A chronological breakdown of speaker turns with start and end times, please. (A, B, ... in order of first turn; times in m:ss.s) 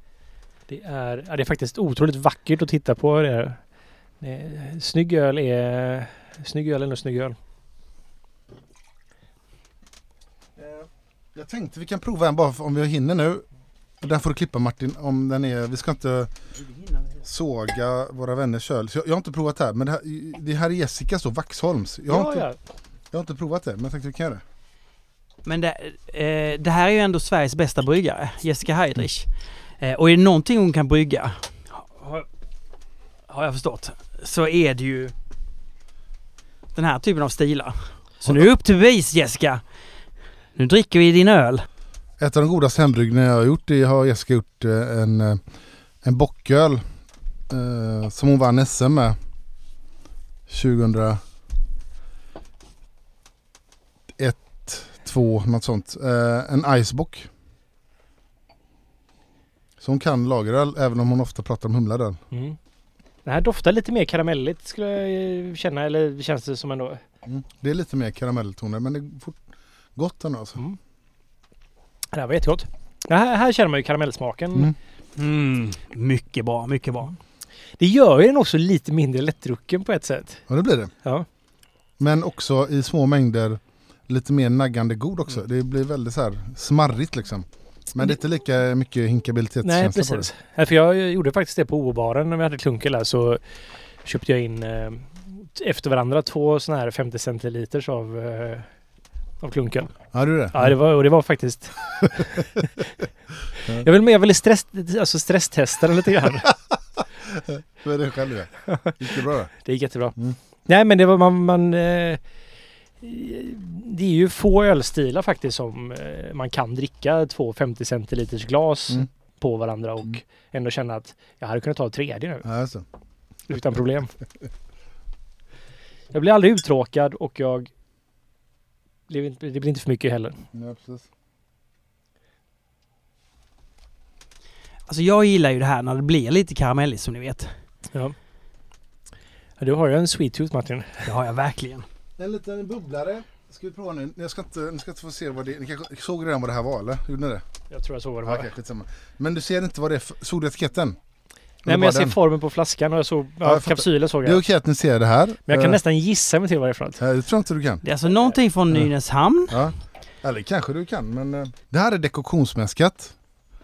0:00.7-0:03.6 A
0:04.2-0:07.4 A
0:10.6-0:13.4 B
0:14.0-0:16.4 B
0:17.2-0:22.5 B
0:22.1-0:22.6 A
0:23.1-0:24.4 B
0:25.4-0:29.3 C
0:29.8-0:32.3 C
0:33.3-0:35.1 C
0:36.7-0:39.6 C
0:40.6-0:41.6 C
0:42.2-0:45.4 B
0:46.0-0:46.8 B
0:47.5-0:49.2 B
0:50.5-0:51.2 B
0:54.2-0:57.3 B
0:59.8-1:02.2 B
1:02.3-1:02.6 A
1:03.2-1:07.0 A
1:07.2-1:09.4 B
1:10.0-1:10.6 B
1:12.1-1:14.7 A
1:15.2-1:17.2 C
1:17.8-1:20.4 A
1:20.5-1:20.9 B
1:22.0-1:30.3 B
1:29.6-1:33.4 A
1:34.0-1:38.7 A
1:39.4-1:39.9 A
1:40.1-1:40.7 B
1:40.5-1:42.4 A
1:43.6-1:46.5 A
1:47.3-1:49.5 B
1:48.7-1:49.1 A
1:49.6-1:52.2 A
1:53.0-2:02.4 A
2:02.4-2:02.8 B
2:03.5-2:04.1 A
2:06.1-2:07.7 A
2:09.1-2:10.4 A
2:10.5-2:11.0 B
2:14.9-2:17.6 C
2:19.6-2:21.1 A
2:21.0-2:21.8 C
2:22.2-2:27.4 B
2:27.7-2:28.5 A
2:28.2-2:31.0 B
2:31.6-2:32.2 B
2:31.6-2:34.4 A
2:33.4-2:35.8 B
2:35.5-2:37.0 A
2:37.0-2:37.8 B
2:37.8-2:39.6 C
2:39.5-2:43.1 B